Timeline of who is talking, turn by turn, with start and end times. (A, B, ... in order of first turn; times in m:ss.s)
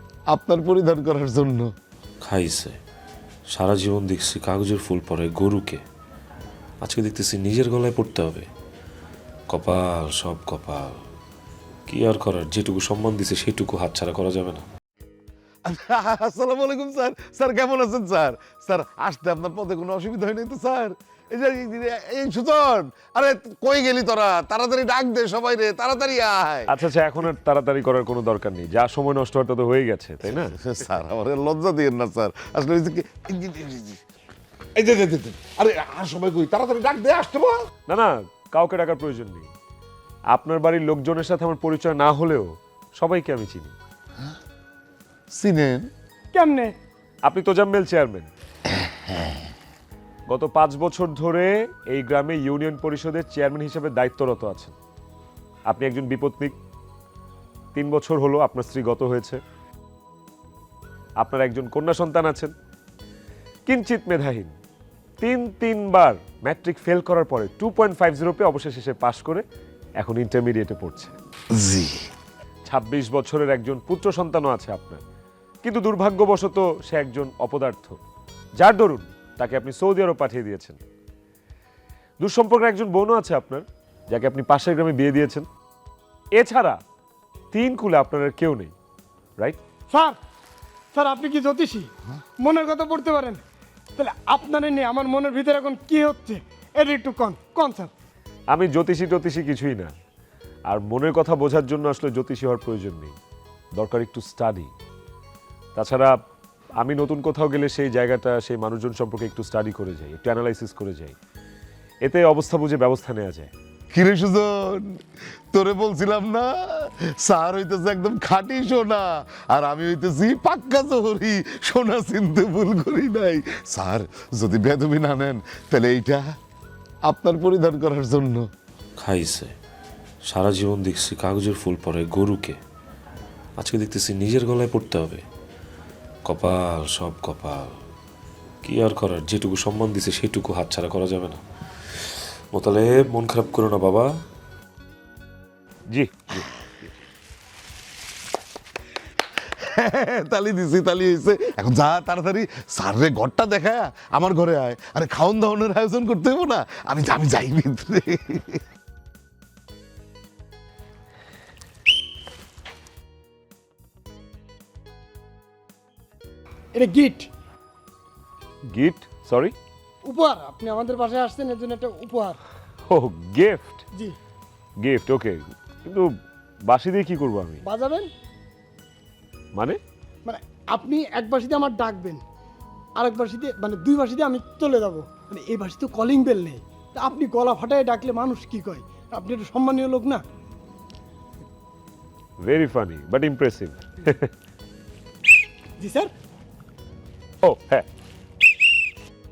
0:00.3-0:01.7 A
0:02.2-0:02.8 B
0:03.5-0:05.8 B
0:06.8-0:08.4 B
0:09.5-0:11.0 B
0:11.9-0:14.6 B
0:15.6-0:26.7 A
0:26.7-0:30.5 C
0:30.2-0:34.0 A
0:34.8-0:37.6 A
0:37.9-0:39.5 C
0:40.3-0:43.7 C
0:45.3-0:45.9 A
0:46.3-0:46.7 D
0:47.2-0:48.3 C
0:48.8-0:49.3 A
0:50.3-0:54.8 C
0:55.7-0:56.6 C
0:57.7-0:59.4 C
1:01.2-1:02.5 C
1:03.6-1:04.5 C
1:05.2-1:09.4 C
1:10.0-1:11.1 C
1:11.5-1:12.0 A
1:12.6-1:15.0 C
1:15.6-1:18.0 C
1:18.6-1:20.8 C
1:22.2-1:25.5 C
1:26.4-1:26.8 C
1:27.5-1:28.7 C
1:29.9-1:30.2 D
1:30.9-1:33.4 D
1:34.0-1:37.9 D
1:38.5-1:39.9 C
1:40.7-1:43.1 C
1:43.8-1:44.7 C
1:45.7-1:46.1 C
1:46.8-1:51.1 C
1:52.0-1:53.5 C
1:53.9-1:55.0 A
1:55.5-2:06.2 A
2:07.1-2:08.4 A
2:09.0-2:09.5 B
2:10.3-2:12.6 B
2:13.6-2:15.2 B
2:16.2-2:17.7 B
2:18.6-2:21.4 B
2:22.0-2:24.1 B
2:25.9-2:26.5 C
2:29.6-2:38.6 A
2:46.7-2:47.3 D
2:48.7-2:49.5 C
2:50.0-2:52.4 D
2:52.9-2:53.8 C
2:54.8-2:56.1 C
2:56.7-2:57.6 C
2:57.6-2:58.1 D
3:00.2-3:02.2 D
3:03.0-3:10.2 D
3:12.4-3:14.3 C
3:15.8-3:16.1 D
3:17.4-3:17.8 C